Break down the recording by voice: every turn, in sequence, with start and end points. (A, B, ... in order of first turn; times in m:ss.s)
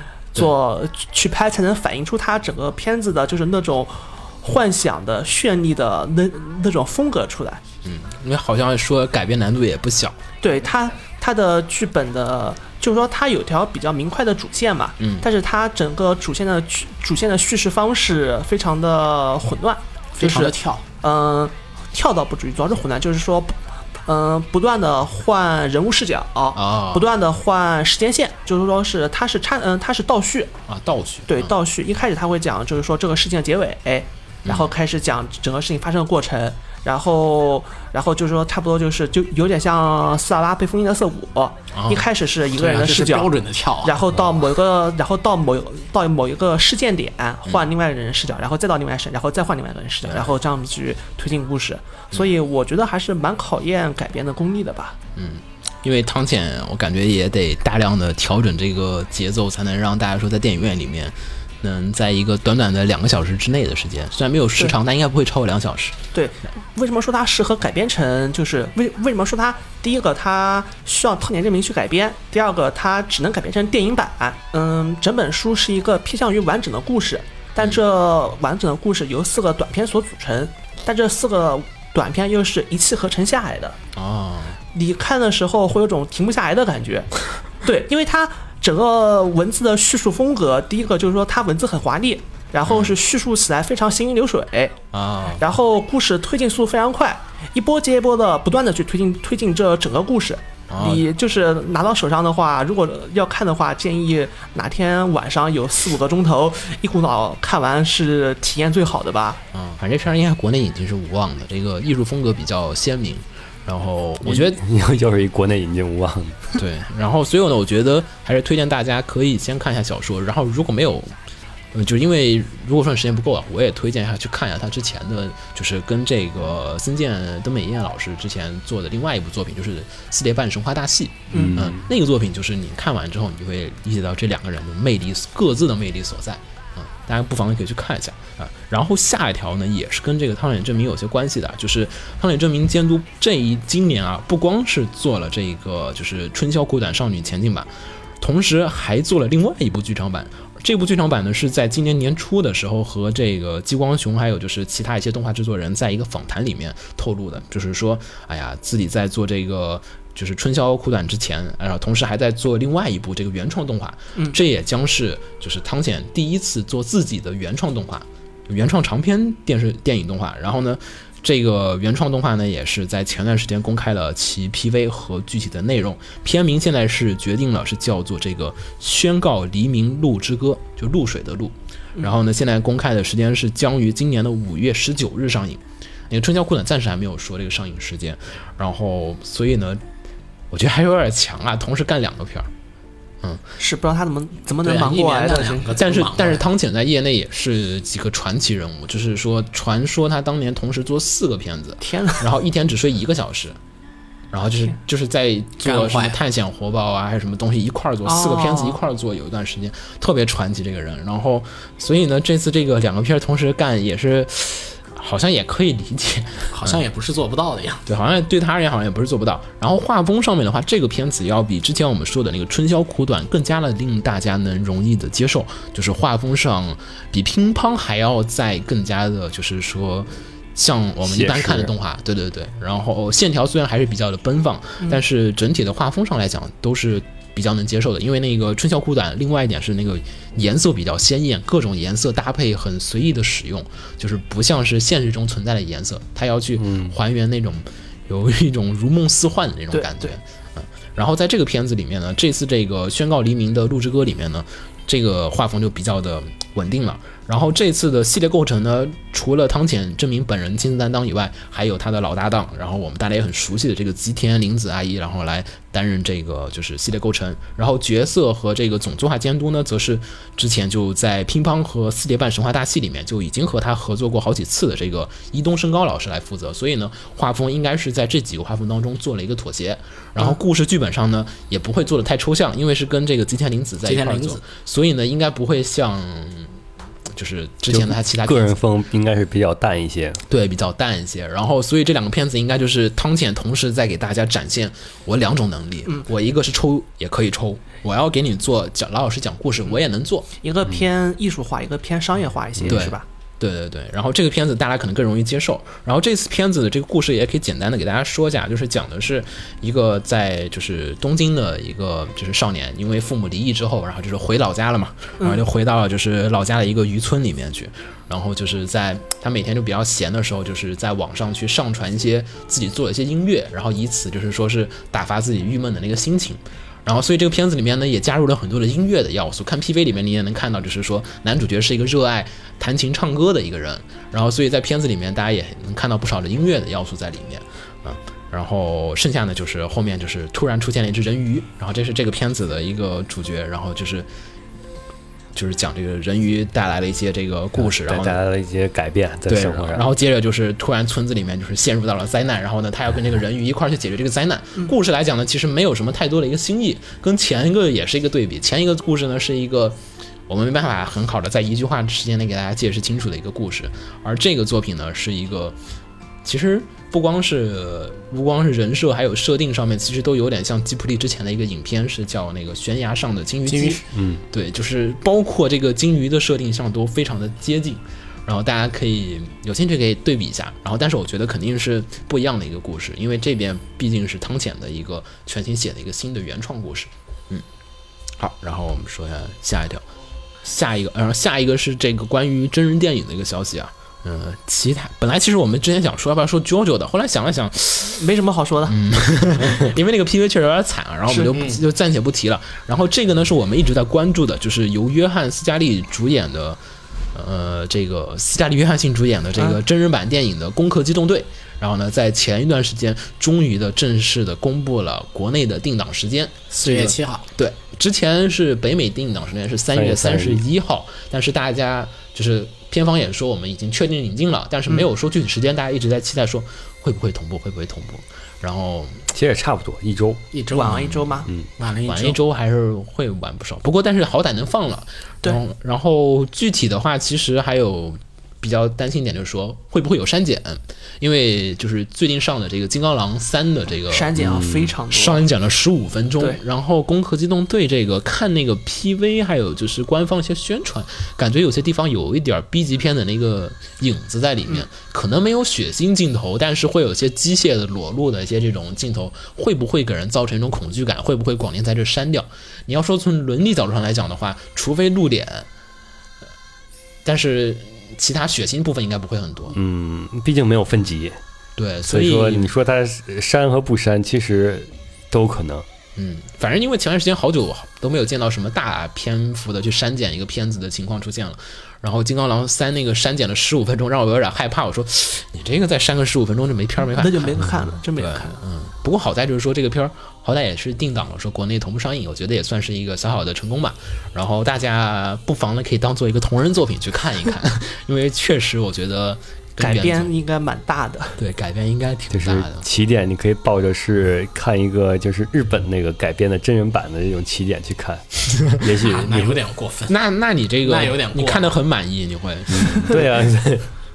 0:00.3-0:07.6 A
0:07.8-0:10.2 B
0:10.4-0:30.5 A
0:15.0-0:15.3 B
0:20.2-0:20.8 C
0:26.6-0:27.1 B
0:30.7-0:31.6 B
0:31.3-0:55.0 A
0:34.5-0:34.7 B
0:41.7-0:42.1 B
0:42.5-0:44.0 C
0:50.1-0:50.4 B
0:55.2-1:06.0 B
1:06.1-1:23.8 A
1:24.0-1:24.6 B
1:24.7-1:34.8 A
1:32.6-1:33.0 B
1:34.9-1:35.4 B
1:35.4-1:49.4 A
1:40.7-1:41.0 B
1:49.5-1:54.6 B
1:54.2-1:56.4 D
1:56.6-2:01.1 B
2:01.7-3:09.8 B
2:11.3-2:11.6 A
2:11.3-2:11.8 D
3:10.5-3:12.5 B
3:13.6-3:15.8 A
3:14.6-3:16.4 C
3:15.8-3:23.6 B
3:21.8-3:22.2 A
3:24.3-3:36.8 B
3:25.6-3:26.2 C
3:28.0-3:28.8 A
3:36.5-3:37.8 C
3:37.9-4:46.6 B
3:51.0-3:51.7 D
4:06.6-4:06.9 D
4:09.7-4:10.2 A
4:43.8-4:44.4 C
4:47.2-4:48.6 B
4:47.7-4:50.2 D
4:50.3-5:00.3 B
5:00.4-5:03.0 A
5:02.7-5:44.1 B
5:45.4-5:48.2 B
5:47.6-5:49.9 D
5:49.3-6:05.6 B
6:06.2-6:27.4 B
6:13.5-6:13.8 C
6:13.9-6:14.2 D
6:28.2-6:29.8 B
6:30.4-6:38.0 B
6:37.9-6:38.8 A
6:38.7-6:46.6 B
6:41.3-6:41.6 C
6:47.1-7:09.0 B
6:56.5-6:57.3 C
6:59.7-7:00.4 D
7:09.1-7:10.2 D
7:10.3-7:10.8 C
7:10.5-7:11.3 A
7:10.6-7:11.1 B
7:11.6-7:12.2 C
7:11.9-7:24.4 B
7:23.9-7:25.3 A
7:24.2-7:24.7 D
7:24.9-7:45.5 B
7:47.0-7:49.6 B
7:49.5-7:51.2 D
7:51.6-7:52.5 B
7:51.8-7:55.7 D
7:56.0-8:20.1 B
8:06.8-8:08.4 A
8:19.6-8:21.2 A
8:21.2-8:22.6 B
8:22.1-8:29.4 D
8:28.8-8:29.9 C
8:29.9-8:33.0 B
8:30.6-8:31.5 C
8:32.5-8:33.7 D